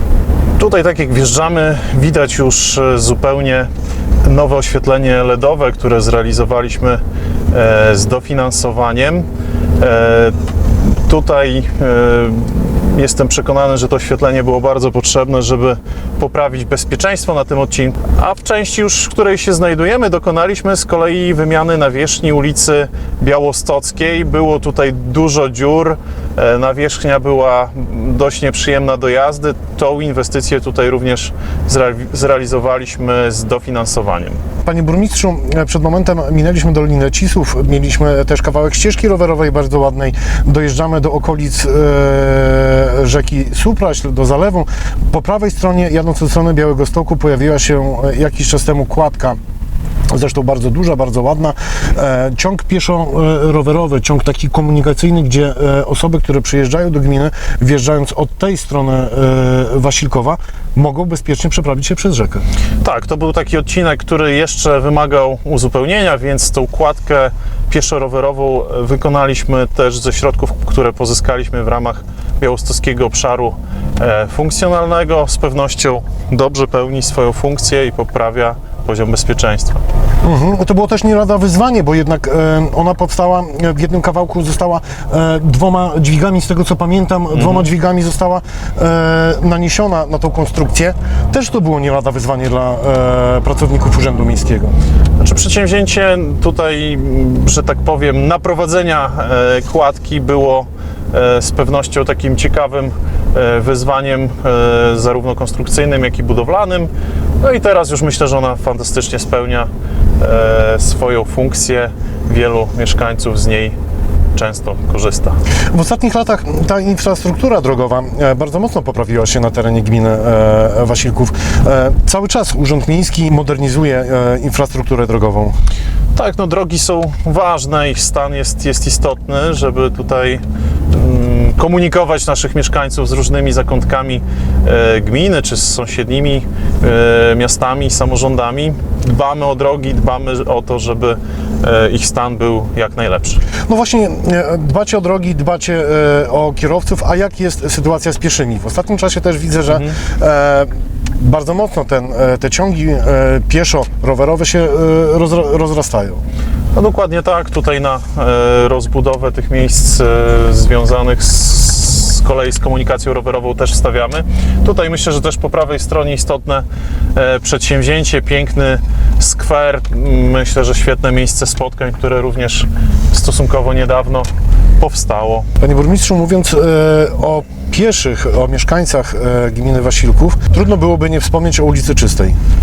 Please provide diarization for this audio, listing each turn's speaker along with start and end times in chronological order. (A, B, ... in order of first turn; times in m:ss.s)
0:00.6-0:03.7 A
0:04.2-0:09.2 A
0:09.8-0:10.4 A
0:10.9-0:34.4 A
0:34.6-0:49.4 B
0:50.1-1:02.4 B
1:02.8-1:19.8 A
1:20.2-1:34.8 B
1:27.3-1:27.7 A
1:35.2-1:46.9 A
1:47.4-1:49.7 A
1:50.2-1:53.8 A
1:54.3-1:55.4 A
1:55.7-2:05.5 B
2:06.1-2:23.4 A
2:23.7-2:36.2 B
2:36.7-2:54.3 A
2:54.8-2:55.5 A
2:55.6-3:02.4 B